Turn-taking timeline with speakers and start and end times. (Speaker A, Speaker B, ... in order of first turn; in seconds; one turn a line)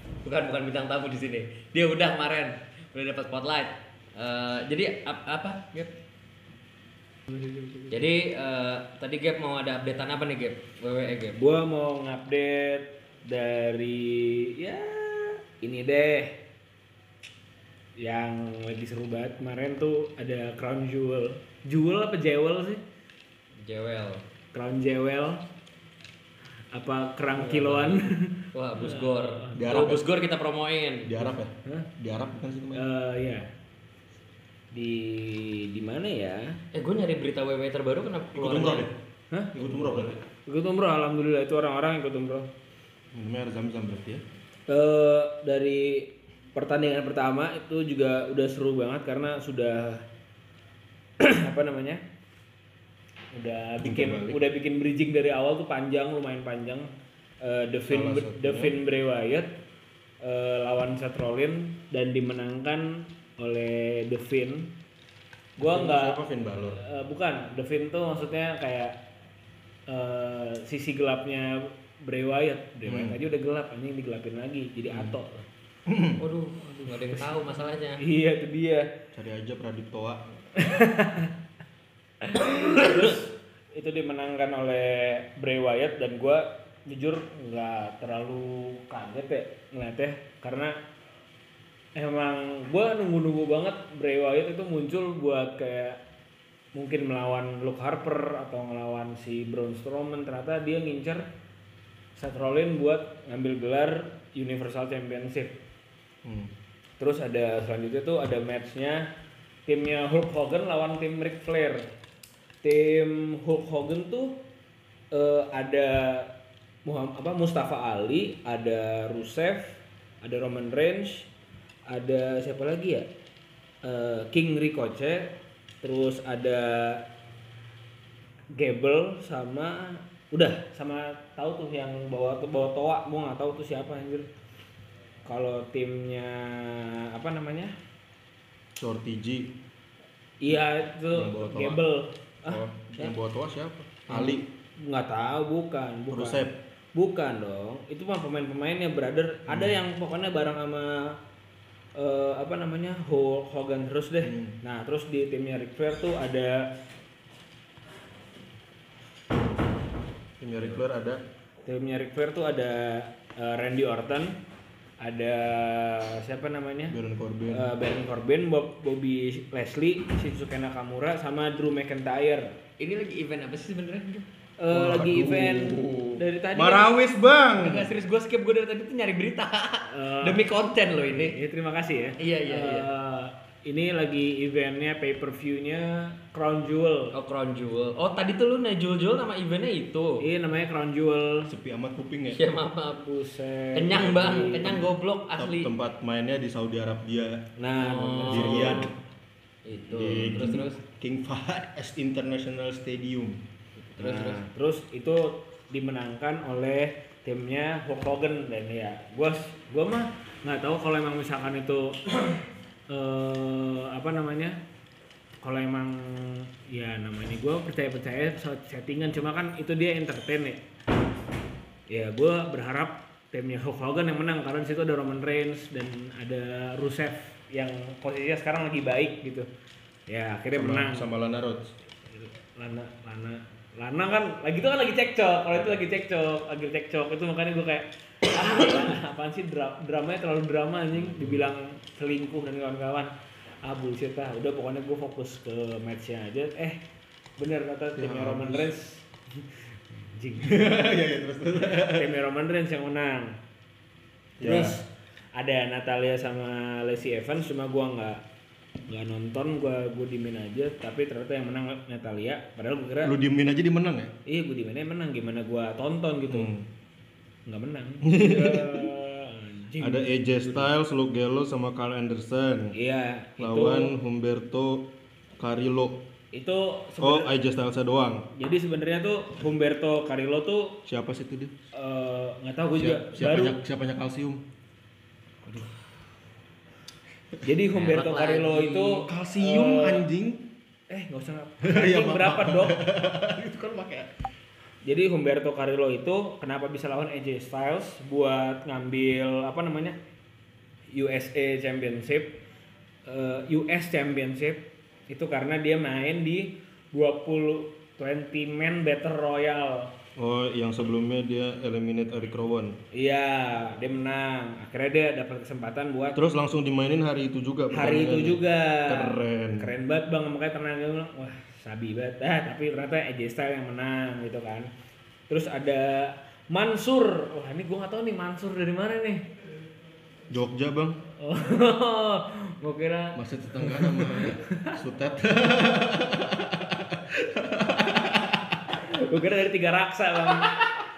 Speaker A: 0.2-5.9
Speaker A: 7.9-11.4
Speaker B: 11.3-16.4
Speaker B: 18.0-22.8
Speaker A: 23.6-24.2
Speaker B: 24.5-25.4
Speaker B: 26.7-29.8
Speaker A: 27.3-31.2
Speaker C: 29.6-30.1
Speaker C: 31.0-32.9
Speaker B: 32.7-33.5
Speaker B: 34.7-36.6
Speaker A: 36.7-38.9
Speaker C: 38.3-38.9
Speaker C: 39.5-40.2
Speaker B: 40.5-42.5
Speaker C: 43.1-44.2
Speaker B: 44.7-50.0
Speaker B: 51.2-52.0
Speaker B: 53.3-56.9
Speaker C: 53.8-54.4
Speaker B: 57.4-59.5
Speaker C: 57.9-58.8
Speaker B: 60.2-64.7
Speaker B: 65.6-69.0
Speaker C: 65.6-66.8
Speaker B: 69.9-75.5
Speaker C: 72.8-73.2
Speaker C: 75.8-76.2
Speaker A: 76.2-78.0
Speaker B: 76.7-77.3
Speaker B: 78.0-78.9
Speaker C: 79.1-80.2
Speaker B: 80.5-81.3
Speaker B: 82.2-90.8
Speaker A: 82.7-83.1
Speaker B: 91.9-96.0
Speaker B: 96.7-101.2
Speaker B: 102.2-105.6
Speaker C: 106.2-106.5
Speaker B: 107.0-109.1
Speaker B: 109.7-111.9
Speaker B: 112.6-114.4
Speaker B: 115.1-116.3
Speaker B: 116.8-121.3
Speaker B: 121.9-123.1
Speaker B: 123.8-127.0
Speaker B: 128.5-134.3
Speaker B: 135.2-137.7
Speaker C: 138.8-139.5
Speaker B: 140.4-143.1
Speaker C: 141.1-141.8
Speaker C: 142.4-144.5
Speaker B: 144.1-151.2
Speaker C: 146.1-146.5
Speaker C: 149.5-149.8
Speaker B: 151.9-156.7
Speaker C: 154.2-154.6
Speaker C: 160.4-161.2
Speaker B: 161.6-164.3
Speaker B: 165.0-166.9
Speaker C: 166.9-167.7
Speaker B: 167.5-172.5
Speaker A: 172.8-174.2
Speaker B: 174.6-177.0
Speaker C: 174.7-177.9
Speaker A: 177.5-181.4
Speaker B: 179.9-180.4
Speaker B: 181.1-187.1
Speaker A: 182.2-182.9
Speaker A: 187.1-190.2
Speaker B: 190.2-191.5
Speaker C: 191.5-192.4
Speaker A: 192.3-193.0
Speaker B: 192.9-194.8
Speaker A: 193.7-195.7
Speaker C: 194.4-194.8
Speaker C: 195.4-198.9
Speaker B: 197.6-198.9
Speaker A: 197.8-198.9
Speaker A: 199.6-200.8
Speaker C: 199.9-203.4
Speaker A: 203.9-204.4
Speaker B: 204.0-214.6
Speaker B: 215.4-220.6
Speaker B: 221.9-229.5
Speaker B: 230.1-231.1
Speaker C: 230.6-231.7
Speaker B: 232.1-243.1
Speaker C: 235.5-235.8
Speaker C: 240.9-241.5
Speaker B: 243.6-246.8
Speaker B: 247.4-250.9
Speaker C: 247.9-248.7
Speaker C: 250.4-252.1
Speaker B: 251.6-253.4
Speaker C: 254.4-254.8
Speaker B: 254.4-258.2
Speaker B: 258.9-263.1
Speaker C: 263.0-264.1
Speaker B: 264.3-266.5
Speaker C: 266.3-266.7
Speaker B: 267.5-270.7
Speaker C: 268.0-268.9
Speaker C: 269.8-272.7
Speaker B: 272.8-273.9
Speaker C: 273.4-276.0
Speaker B: 276.3-277.3
Speaker C: 277.0-278.2
Speaker B: 278.3-280.8
Speaker C: 280.9-281.5
Speaker B: 281.7-283.6
Speaker C: 282.8-284.4
Speaker B: 285.4-285.7
Speaker B: 287.4-290.1
Speaker A: 287.7-289.1
Speaker C: 289.1-290.4
Speaker B: 290.9-292.8
Speaker C: 291.6-294.1
Speaker B: 294.8-300.0
Speaker B: 300.9-302.4
Speaker B: 303.1-309.9
Speaker C: 310.1-312.8
Speaker B: 312.9-316.2
Speaker C: 316.1-319.7
Speaker B: 317.7-324.7
Speaker B: 325.3-329.2
Speaker C: 330.3-331.0
Speaker B: 331.2-334.8
Speaker C: 333.1-338.6
Speaker B: 338.8-340.6